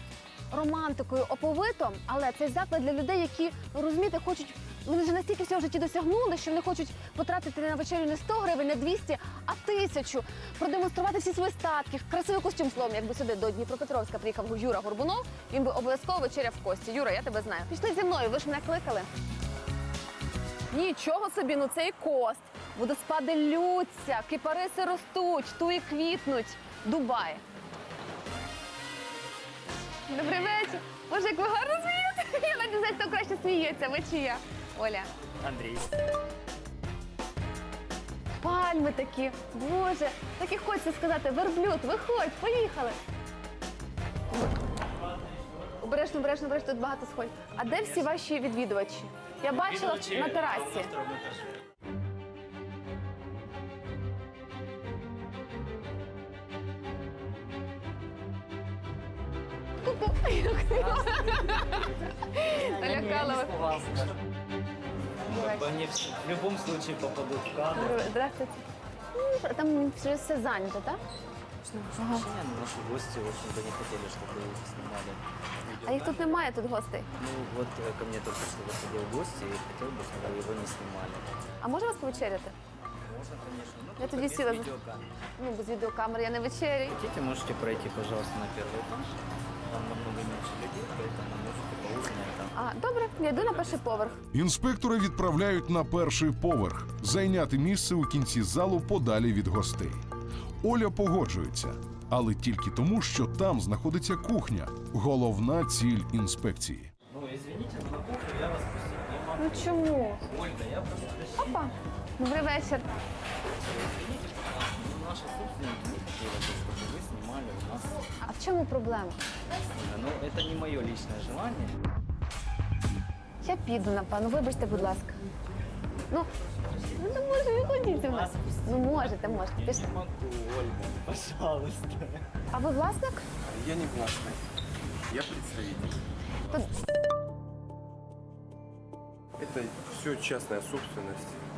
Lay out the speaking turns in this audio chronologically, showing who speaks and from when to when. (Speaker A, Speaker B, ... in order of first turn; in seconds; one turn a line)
Speaker A: 0.5-19.1
Speaker A: 20.7-27.4
Speaker A: 30.1-35.1
Speaker B: 35.4-35.9
Speaker A: 38.4-43.0
Speaker A: 45.8-50.9
Speaker B: 49.7-51.5
Speaker A: 59.8-63.6
Speaker B: 61.1-61.4
Speaker B: 62.5-64.1
Speaker B: 65.3-68.0
Speaker A: 65.3-65.7
Speaker A: 67.7-68.6
Speaker A: 69.1-71.0
Speaker B: 71.7-76.3
Speaker A: 72.0-72.3
Speaker A: 75.8-77.1
Speaker B: 77.2-81.3
Speaker A: 81.6-82.5
Speaker B: 83.0-85.1
Speaker A: 84.0-84.7
Speaker A: 85.4-87.0
Speaker B: 86.9-89.2
Speaker B: 89.7-92.6
Speaker A: 92.5-94.2
Speaker C: 94.3-100.0
Speaker C: 100.6-106.9
Speaker B: 107.1-111.6
Speaker A: 109.4-110.2
Speaker A: 111.4-112.8
Speaker B: 113.6-118.0
Speaker A: 118.2-119.2
Speaker B: 119.8-121.8
Speaker A: 123.4-125.2
Speaker A: 127.0-129.9
Speaker B: 129.5-132.3
Speaker A: 132.5-133.2
Speaker D: 133.4-134.4
Speaker D: 135.1-136.0
Speaker D: 139.4-141.4